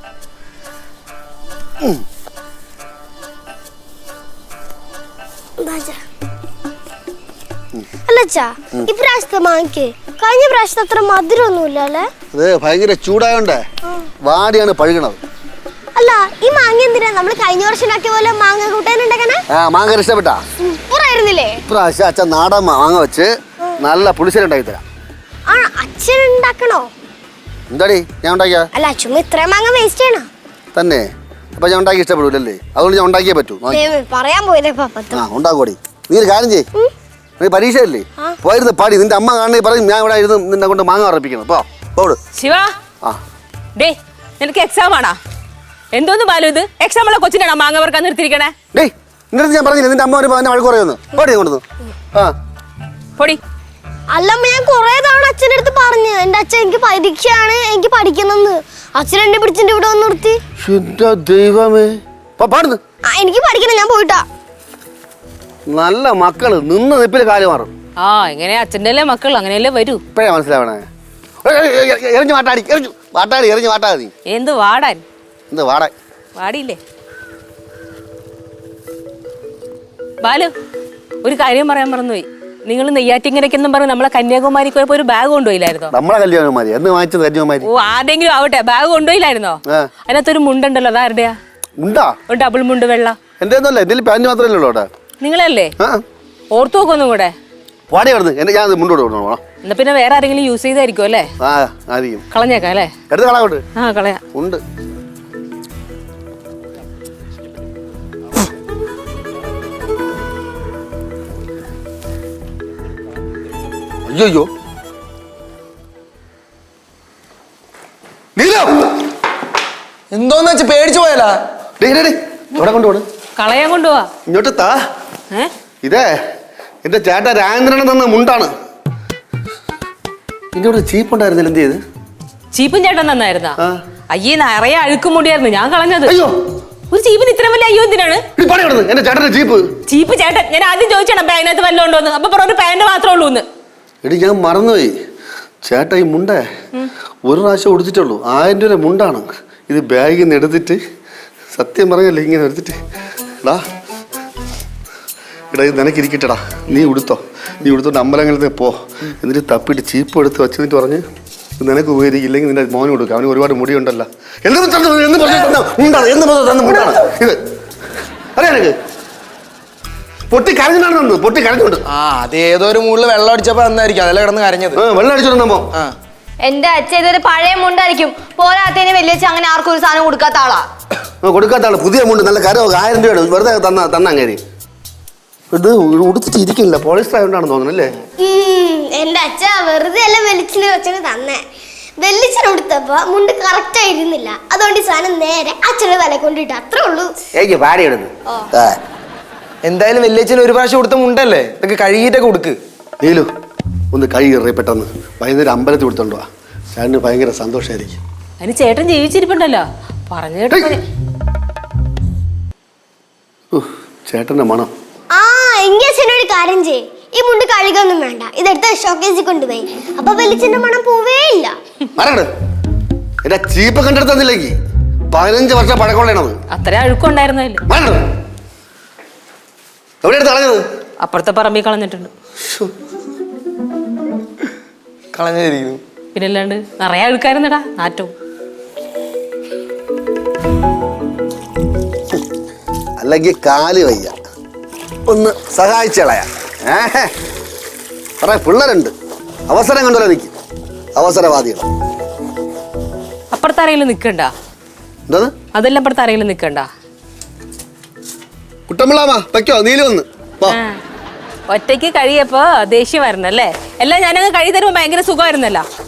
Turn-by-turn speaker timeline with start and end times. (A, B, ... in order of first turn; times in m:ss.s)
0:05.6-0:06.0 A
0:08.1-0:12.1 A
0:12.3-0:13.6 B
0:14.2-0:15.2 B
0:16.0-0:19.4 A
0:19.5-0:20.4 B
0:20.6-0:21.1 A
0:20.9-0:21.6 C
0:21.6-0:24.8 B
0:25.5-0:26.9 A
0:27.7-0:28.7 B
0:28.8-0:30.3 A
0:30.8-0:33.8 B
0:33.7-0:35.2 A
0:35.1-0:36.7 B
0:37.4-0:42.2 B
0:42.4-0:42.7 D
0:43.8-0:45.2 D
0:45.9-0:48.5 D
0:48.7-0:51.6 B
0:54.1-1:00.4 A
1:00.6-1:02.8 B
1:03.0-1:04.3 A
1:05.7-1:07.7 B
1:08.0-1:10.0 D
1:10.1-1:10.9 B
1:11.4-1:14.1 B
1:14.3-1:15.0 D
1:15.5-1:15.9 B
1:16.4-1:16.8 D
1:20.2-1:20.5 D
1:21.2-1:25.9 D
1:25.9-1:27.7 B
1:27.6-1:31.4 D
1:31.8-1:32.2 B
1:32.3-1:33.2 D
1:33.4-1:34.9 B
1:35.2-1:35.7 D
1:36.5-1:37.3 D
1:37.9-1:39.4 B
1:39.6-1:41.3 D
1:41.4-1:42.2 B
1:42.3-1:42.9 D
1:43.1-1:43.6 B
1:43.8-1:44.2 D
1:44.3-1:44.6 B
1:54.1-1:54.5 B
1:58.4-1:59.0 B
2:00.1-2:01.4 E
2:01.8-2:03.0 B
2:03.4-2:04.1 D
2:04.3-2:04.8 B
2:06.8-2:08.5 B
2:10.6-2:11.8 B
2:12.5-2:13.6 D
2:14.1-2:16.2 D
2:16.1-2:16.3 B
2:16.9-2:18.2 D
2:18.4-2:19.6 B
2:19.9-2:23.4 D
2:24.0-2:24.9 B
2:25.6-2:26.4 B
2:27.3-2:30.8 B
2:31.5-2:32.8 B
2:35.5-2:41.0 B
2:41.6-2:47.4 B
2:48.4-2:48.8 B
2:50.3-2:51.8 B
2:51.9-2:54.8 E
2:54.8-2:55.6 B
2:56.4-3:00.7 C
3:01.2-3:04.4 B
3:05.5-3:08.0 B
3:08.2-3:11.4 A
3:12.0-3:17.2 A
3:17.4-3:18.8 B
3:19.6-3:22.6 E
3:23.0-3:23.3 B
3:23.9-3:28.0 B
3:28.4-3:30.8 D
3:30.5-3:30.8 B
3:33.5-3:34.7 B
3:35.1-3:41.6 A
3:42.0-3:42.3 B
3:43.2-3:44.6 B
3:45.1-3:46.4 B
3:46.5-3:47.6 D
3:47.7-3:48.0 B
3:50.0-3:50.6 B
3:51.0-3:52.1 D
3:52.4-3:52.7 B
3:55.1-3:55.8 E
3:56.2-3:58.1 D
4:03.0-4:04.1 B
4:05.1-4:07.1 B
4:08.2-4:08.9 B
4:09.5-4:10.3 B
4:11.0-4:11.7 B
4:13.3-4:14.3 D
4:15.5-4:16.7 D
4:18.7-4:20.6 B
4:20.5-4:20.8 D
4:21.5-4:25.6 D